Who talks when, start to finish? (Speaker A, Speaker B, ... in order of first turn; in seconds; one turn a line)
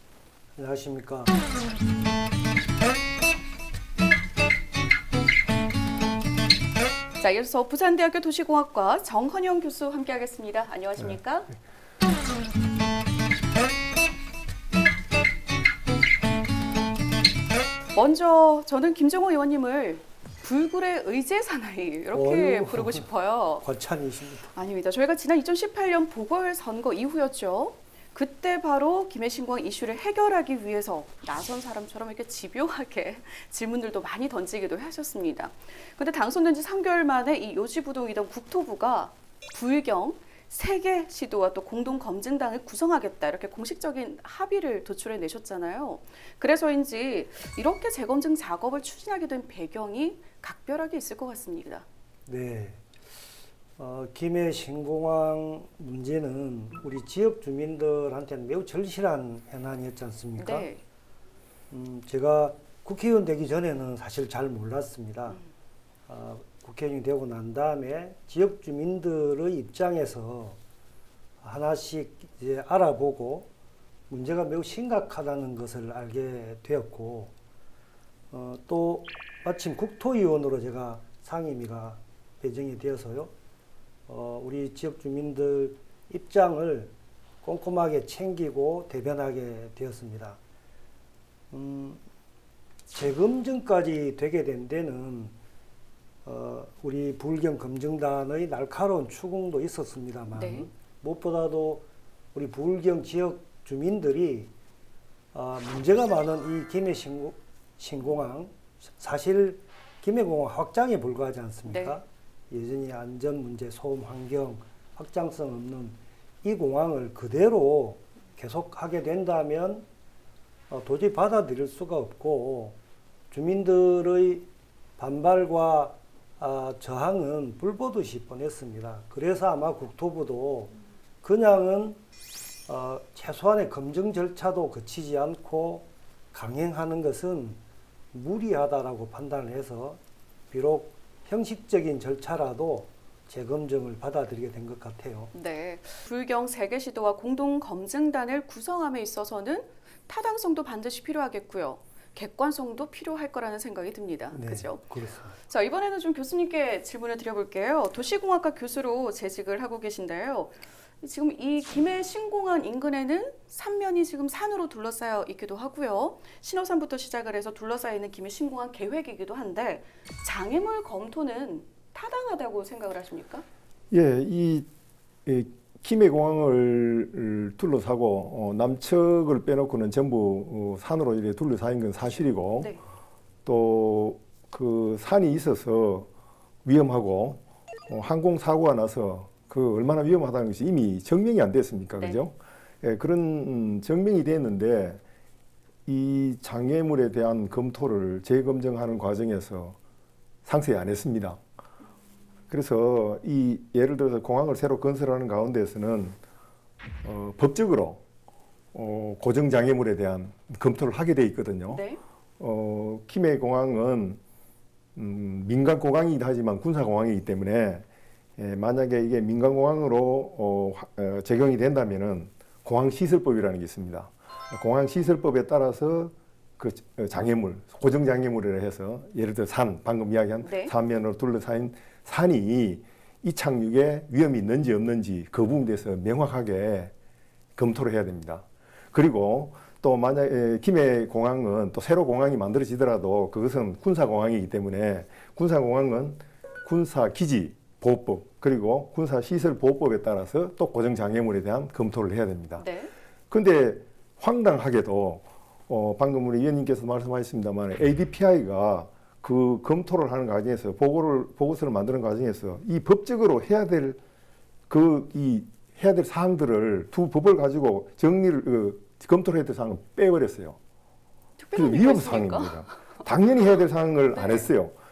Speaker A: 0.6-1.3
Speaker B: 7.2-11.5
Speaker B: 17.9-23.6
Speaker A: 22.1-23.1
Speaker A: 23.6-24.5
Speaker B: 24.5-51.8
Speaker A: 52.2-52.8
Speaker A: 53.8-60.7
Speaker B: 60.4-60.8
Speaker A: 61.7-65.4
Speaker A: 66.1-70.6
Speaker A: 71.4-73.5
Speaker A: 74.1-77.3
Speaker A: 78.3-83.3
Speaker A: 84.1-90.4
Speaker A: 91.5-92.0
Speaker A: 92.9-95.3
Speaker A: 96.2-104.5
Speaker B: 100.3-100.7
Speaker A: 105.3-119.8
Speaker B: 111.7-111.9
Speaker A: 120.7-122.8
Speaker A: 123.3-132.0
Speaker A: 132.7-137.6
Speaker A: 138.1-140.0
Speaker A: 140.5-145.3
Speaker B: 145.3-173.4
Speaker A: 154.3-155.3
Speaker C: 173.9-174.7
Speaker C: 175.2-182.7
Speaker C: 183.4-186.1
Speaker C: 186.6-195.0
Speaker C: 195.8-199.8
Speaker C: 200.4-201.4
Speaker C: 202.5-206.2
Speaker C: 207.0-208.0
Speaker C: 208.7-211.8
Speaker B: 211.7-212.0
Speaker C: 212.4-214.2
Speaker C: 214.9-217.8
Speaker C: 218.4-236.9
Speaker B: 230.4-230.7
Speaker C: 237.6-252.7
Speaker B: 252.6-252.9
Speaker C: 253.3-264.0
Speaker C: 264.7-270.6
Speaker B: 271.4-272.8
Speaker C: 271.5-274.7
Speaker B: 274.1-274.5